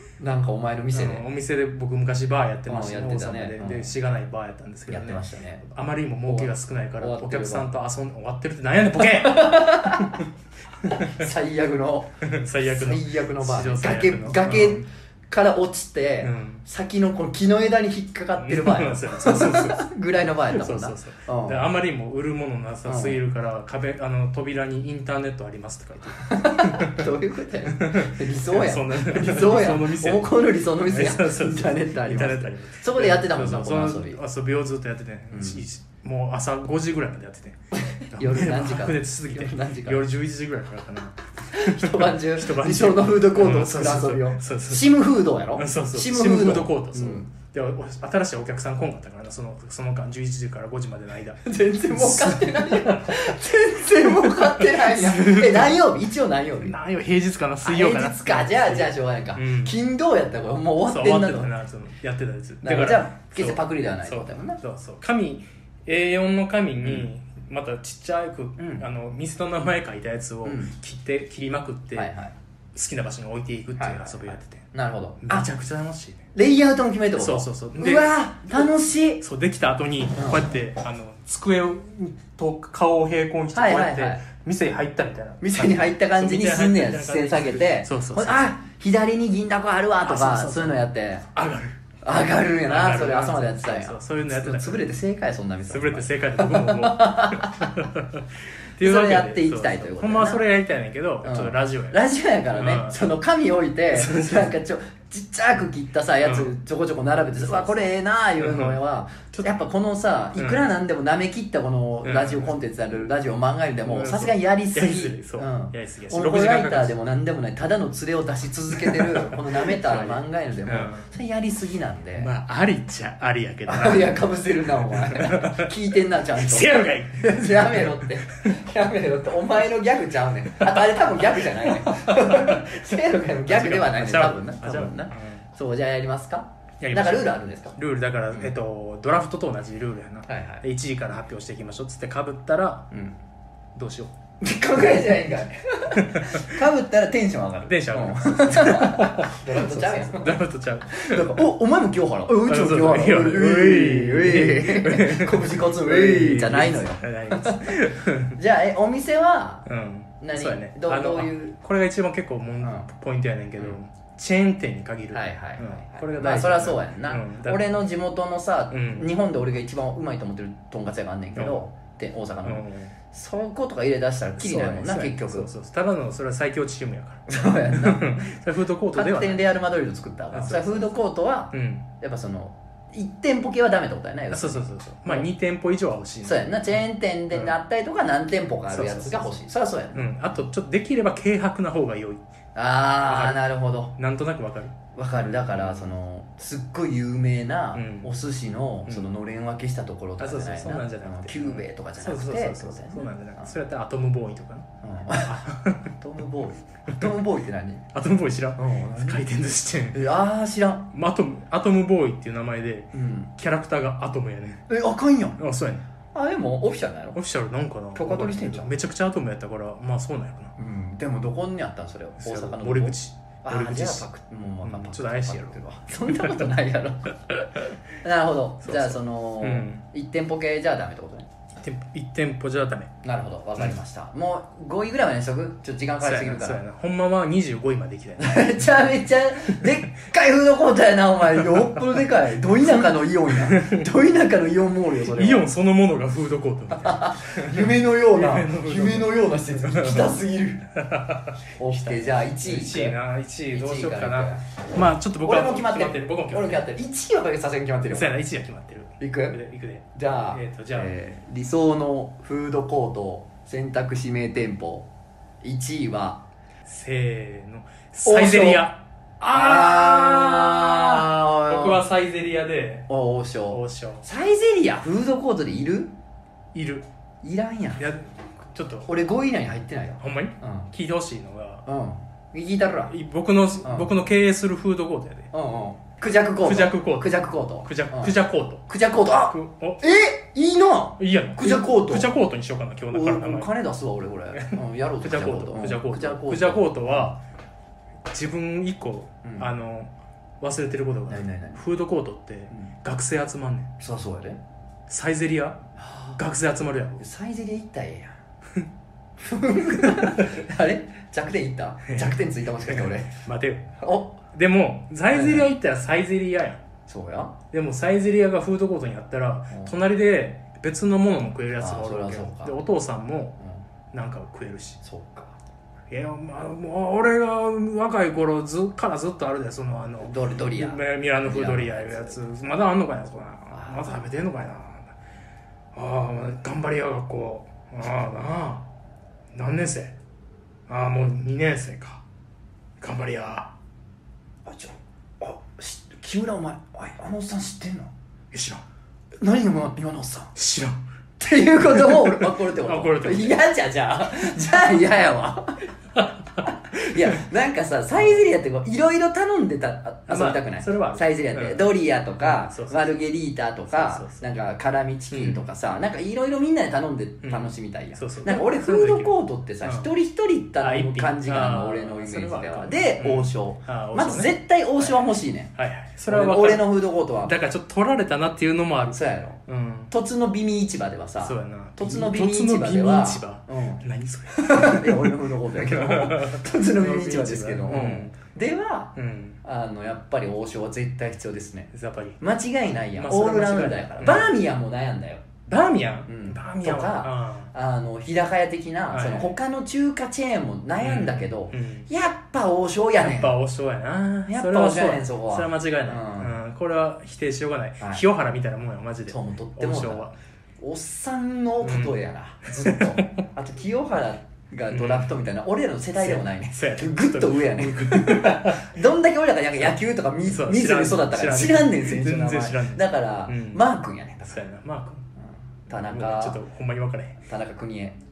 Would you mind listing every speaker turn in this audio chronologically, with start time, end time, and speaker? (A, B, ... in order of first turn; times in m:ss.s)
0:00.2-0:01.2 A
0:00.9-0:10.2 B
0:02.7-0:03.9 A
0:04.9-0:05.6 A
0:06.2-0:07.7 A
0:09.0-0:10.2 A
0:10.9-0:21.7 A
0:10.9-0:11.2 B
0:12.2-0:14.8 B
0:16.2-0:16.6 B
0:18.4-0:19.9 B
0:20.5-0:27.1 B
0:22.8-0:23.2 A
0:26.2-0:34.2 A
0:27.6-0:37.6 B
0:35.3-0:35.6 A
0:37.7-0:40.0 A
0:38.1-0:45.0 B
0:41.5-0:47.3 A
0:45.5-0:55.8 B
0:51.4-0:56.8 A
0:56.6-0:59.8 B
0:57.6-1:01.5 A
1:00.8-1:12.1 B
1:02.6-1:04.6 A
1:06.8-1:07.1 A
1:08.6-1:08.8 A
1:10.4-1:10.7 A
1:11.9-1:12.3 A
1:12.7-1:14.6 B
1:13.8-1:15.5 A
1:15.2-1:16.2 B
1:16.3-1:19.2 A
1:17.2-1:18.7 B
1:19.2-1:28.5 B
1:20.2-1:20.4 A
1:23.5-1:24.2 A
1:25.4-1:31.2 A
1:30.0-1:31.8 B
1:32.0-1:37.8 A
1:32.6-1:34.9 B
1:35.7-1:42.0 B
1:38.8-1:40.4 A
1:41.2-2:02.3 A
1:42.5-1:43.0 B
1:43.9-1:44.5 B
1:46.2-1:46.5 B
1:47.4-1:47.8 B
1:48.4-1:48.8 B
1:49.3-1:49.6 B
1:50.4-1:50.6 B
1:52.0-1:52.5 B
1:53.8-1:56.9 B
1:58.8-2:01.1 B
2:02.2-2:04.2 B
2:03.6-2:17.8 A
2:04.8-2:05.7 B
2:06.3-2:08.6 B
2:10.6-2:15.4 B
2:16.8-2:22.9 B
2:20.3-2:20.6 A
2:23.7-2:24.1 B
2:24.4-2:37.8 A
2:25.9-2:26.5 B
2:27.6-2:31.4 B
2:32.4-2:38.4 B
2:38.3-2:39.7 A
2:39.6-2:47.8 B
2:40.2-2:41.6 A
2:42.6-2:42.9 A
2:45.1-2:55.5 A
2:48.7-2:49.1 B
2:51.3-2:51.6 B
2:52.4-2:52.9 B
2:54.4-2:59.4 B
2:57.3-2:58.3 A
2:58.9-3:05.3 A
3:00.3-3:00.9 B
3:01.5-3:01.8 B
3:04.3-3:06.5 B
3:06.2-3:10.1 A
3:08.7-3:09.4 B
3:09.9-3:12.2 B
3:12.5-3:13.9 A
3:13.0-3:13.4 B
3:13.9-3:14.7 B
3:14.9-3:23.5 A
3:15.5-3:15.9 B
3:17.7-3:18.1 B
3:18.9-3:19.1 B
3:20.2-3:25.9 B
3:24.8-3:27.8 A
3:27.9-3:30.0 B
3:28.6-3:29.2 A
3:29.9-3:30.9 A
3:30.9-3:34.7 B
3:32.9-3:33.3 A
3:34.7-3:35.4 A
3:35.4-3:35.8 B
3:36.1-3:37.2 A
3:37.1-3:40.5 B
3:37.9-3:38.7 A
3:40.6-3:47.2 A
3:42.2-3:44.1 B
3:44.6-3:46.5 B
3:47.3-3:47.7 B
3:48.0-3:51.3 A
3:48.6-3:49.8 B
3:51.6-3:52.9 B
3:53.0-3:56.6 A
3:56.0-3:58.6 B
3:58.2-4:05.4 A
4:02.8-4:03.9 B
4:05.0-4:10.2 B
4:06.7-4:10.6 A
4:10.7-4:16.7 B
4:11.6-4:14.5 A
4:15.2-4:18.2 A
4:17.9-4:20.9 B
4:19.0-4:19.4 A
4:19.9-4:24.9 A
4:25.4-4:26.2 A
4:26.6-4:32.9 B
4:28.0-4:31.8 A
4:32.9-4:35.9 A
4:33.5-4:34.0 B
4:36.5-4:36.8 B
4:37.2-4:37.8 A
4:37.8-4:38.9 B
4:38.9-4:40.7 A
4:40.0-4:41.6 B
4:41.6-4:42.9 A
4:42.9-4:45.3 B
4:43.6-4:43.9 A
4:45.3-4:48.2 A
4:46.4-4:49.8 B
4:48.7-4:52.1 A
4:51.0-4:53.5 B
4:52.9-4:57.1 A
4:54.3-4:57.2 B
4:58.0-5:03.7 B
4:59.2-4:59.5 A
5:01.1-5:01.6 A
5:03.8-5:04.4 A
5:04.9-5:05.6 B
5:05.8-5:06.2 A
5:06.2-5:07.0 B
5:07.0-5:08.1 A
5:09.2-5:13.2 A
5:09.9-5:10.3 B
5:11.9-5:13.7 B
5:13.8-5:14.2 A
5:14.2-5:16.6 B
5:15.1-5:15.5 A
5:16.9-5:17.4 A
5:17.5-5:23.4 B
5:19.5-5:19.8 A
5:21.6-5:22.6 A
5:23.9-5:24.8 B
5:24.8-5:25.4 A
5:25.9-5:34.9 B
5:30.0-5:32.2 A
5:33.5-5:34.0 A
5:35.7-5:38.6 B
5:39.3-5:39.9 B
5:40.7-5:42.0 B
5:42.8-5:43.5 B
5:44.4-5:47.9 A
5:48.3-5:48.6 B
5:49.2-5:50.3 A
5:50.4-5:50.8 B
5:51.2-5:55.7 A
5:51.7-5:53.4 B
5:56.0-5:57.0 B
5:56.4-6:15.5 A
5:58.0-5:58.2 B
6:00.1-6:03.0 B
6:03.7-6:04.2 B
6:05.1-6:05.4 B
6:07.2-6:09.9 B
6:10.6-6:19.9 B
6:16.1-6:17.3 A
6:18.9-6:35.2 A
6:21.2-6:28.2 B
6:28.9-6:29.4 B
6:31.7-6:32.2 B
6:33.0-6:34.4 B
6:35.5-6:37.5 B
6:36.1-6:43.3 A
6:38.9-6:39.3 B
6:40.8-6:41.9 B
6:43.0-6:50.1 B
6:44.3-6:46.4 A
6:49.1-7:04.4 A
6:51.6-6:53.2 B
6:54.7-6:55.2 B
6:56.0-6:58.7 B
6:59.6-7:03.6 B
7:04.3-7:05.0 B
7:05.2-7:06.4 A
7:05.7-7:07.2 B
7:07.2-7:08.0 A